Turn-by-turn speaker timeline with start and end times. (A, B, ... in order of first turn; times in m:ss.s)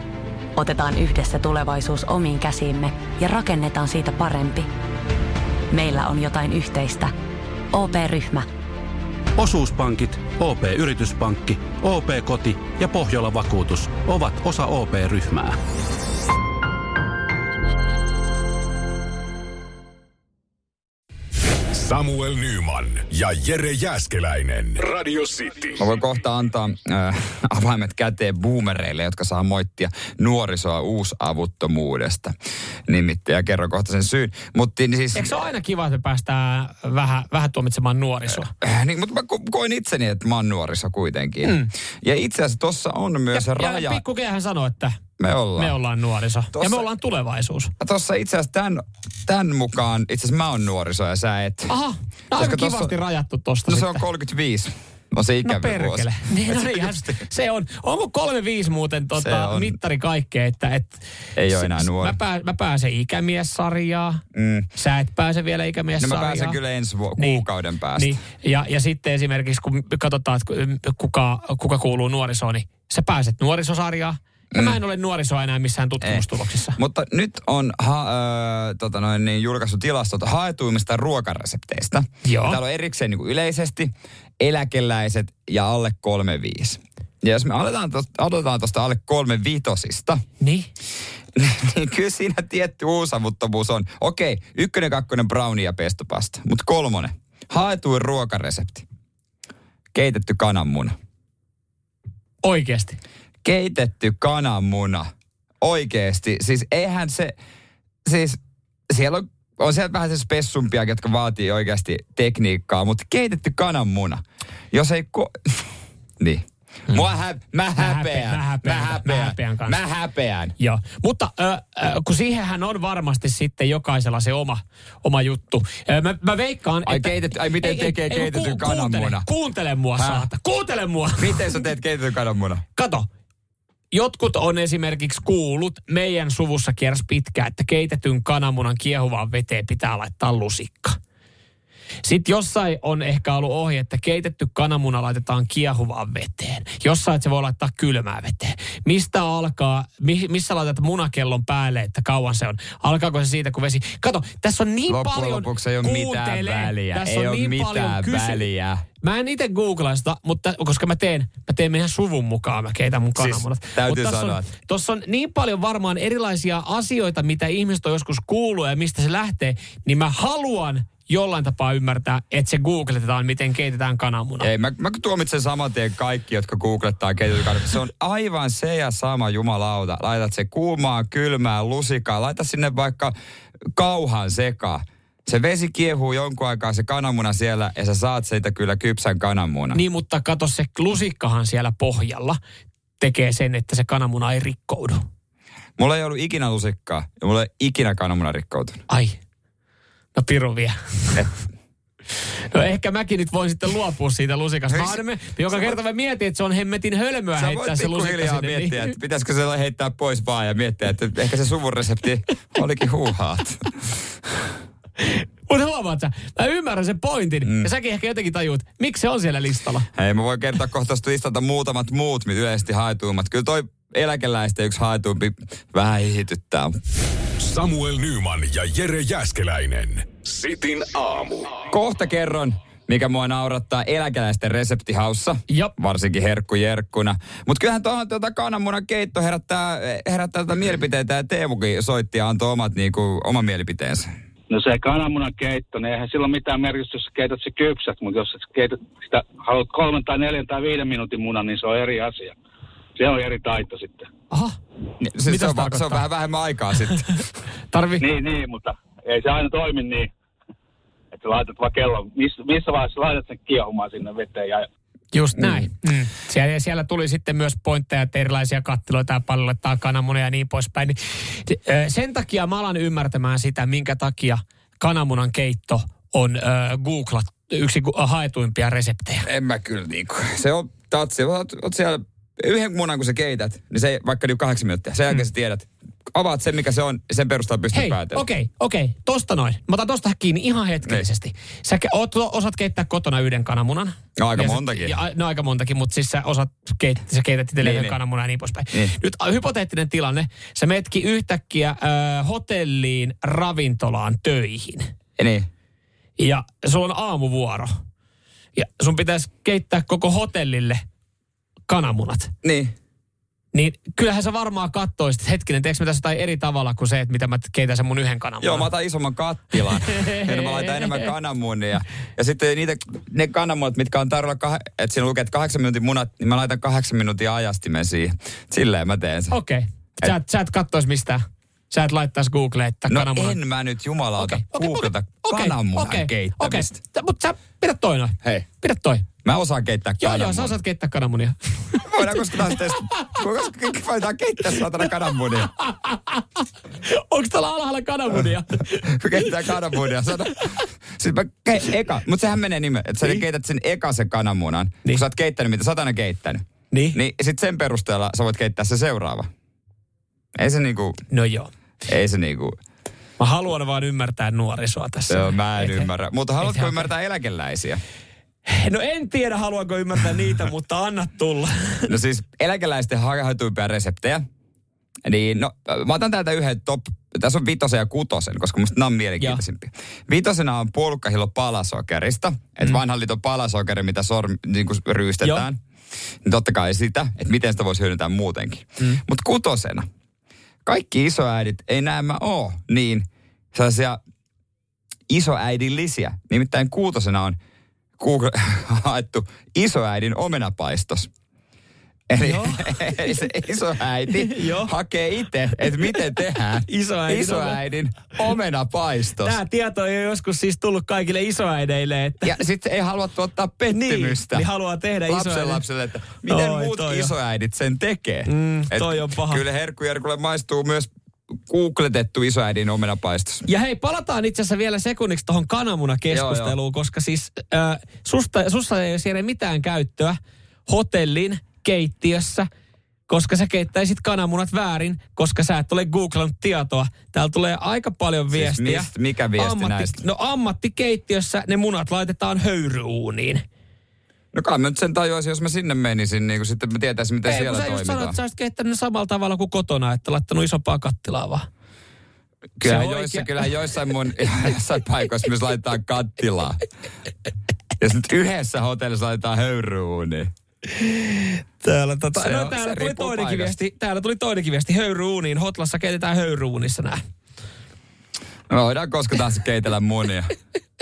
0:00.6-0:04.6 A
0:05.7-0:07.1 A
0:07.7-0:08.4 A
0:09.4-0:15.6 B
0:21.7-0:25.8 C
0:25.8-0:32.3 D
0:32.9-0:35.4 D
0:35.1-0:38.5 E
0:38.5-0:44.0 D
0:43.3-0:45.0 E
0:45.2-0:45.8 D
0:45.6-0:47.7 E
0:46.5-0:46.8 D
0:47.8-0:51.8 D
0:51.7-0:54.0 E
0:52.3-0:52.9 D
0:53.7-0:57.2 D
0:55.4-1:04.2 E
0:59.2-0:59.8 D
1:01.4-1:02.2 D
1:04.3-1:04.7 D
1:04.7-1:06.6 E
1:06.0-1:08.2 D
1:07.2-1:16.8 E
1:14.5-1:14.8 D
1:16.0-1:30.2 D
1:22.2-1:22.6 E
1:30.4-1:30.7 E
1:31.4-1:38.8 D
1:39.9-1:40.9 D
1:42.4-1:43.0 E
1:43.4-1:45.1 D
1:45.6-1:47.3 D
1:48.0-1:48.4 D
1:48.9-1:54.2 D
1:54.7-1:55.7 D
1:56.2-2:00.5 D
1:57.8-1:59.8 E
2:00.6-2:11.4 E
2:06.8-2:09.2 D
2:10.0-2:10.3 D
2:11.2-2:12.6 D
2:12.7-2:13.1 E
2:13.9-2:21.0 E
2:22.0-2:38.4 E
2:34.9-2:38.8 D
2:39.0-2:54.5 E
2:43.2-2:44.5 D
2:54.4-3:03.1 D
3:03.8-3:09.8 D
3:09.7-3:12.4 E
3:13.0-3:15.0 E
3:15.8-3:18.8 D
3:18.9-3:19.2 E
3:20.1-3:21.2 E
3:22.5-3:28.9 E
3:24.7-3:25.8 D
3:27.4-3:33.7 D
3:35.0-3:39.9 E
3:37.4-3:37.7 D
3:39.9-3:46.7 D
3:47.4-3:51.6 C
3:51.7-4:04.1 D
3:55.5-3:55.7 E
4:04.5-4:12.3 F
4:13.0-4:14.1 F
4:15.0-4:17.1 D
4:15.2-4:16.0 E
4:17.7-4:18.0 E
4:18.0-4:20.1 F
4:21.2-4:24.6 F
4:25.1-4:39.2 E
4:39.2-4:48.2 D
4:47.7-5:04.9 E
4:54.2-4:55.0 D
4:57.6-4:58.0 D
5:05.2-5:05.5 D
5:06.2-5:07.7 E
5:08.6-5:10.8 E
5:11.7-5:12.3 E
5:12.4-5:12.7 D
5:13.5-5:18.7 E
5:18.4-5:29.4 D
5:19.7-5:21.0 E
5:29.3-5:33.4 E
5:32.9-5:36.8 D
5:34.2-5:39.0 E
5:39.2-5:40.6 D
5:40.0-5:43.0 E
5:41.8-5:45.5 D
5:45.4-5:49.8 E
5:48.8-5:56.4 D
5:50.4-5:50.6 E
5:56.7-5:57.0 E
5:56.9-5:59.3 D
6:00.4-6:01.0 D
6:01.1-6:01.5 E
6:01.9-6:02.6 D
6:03.2-6:05.9 E
6:05.1-6:07.8 D
6:06.4-6:06.9 E
6:08.4-6:11.9 E
6:11.9-6:14.2 D
6:15.0-6:25.6 D
6:25.2-6:25.5 E
6:26.2-6:29.8 D
6:30.6-6:34.0 D
6:35.1-6:37.4 D
6:38.0-6:41.1 D
6:42.1-6:49.4 D
6:42.2-6:43.2 E
6:44.2-6:44.7 E
6:46.6-6:47.6 E
6:49.2-6:52.3 E
6:52.2-6:54.5 D
6:53.7-6:55.6 E
6:55.1-7:00.9 D
6:56.2-6:57.1 E
6:58.3-6:59.4 E
7:01.5-7:03.4 D
7:03.4-7:12.5 E
7:06.1-7:06.6 D
7:13.1-7:23.4 E
7:18.3-7:20.0 D
7:24.3-7:28.2 D
7:27.2-7:31.4 E
7:32.6-7:36.6 D
7:32.6-7:33.4 E
7:37.8-7:40.3 D
7:40.7-7:47.0 E
7:42.1-7:43.5 D
7:48.5-7:50.3 D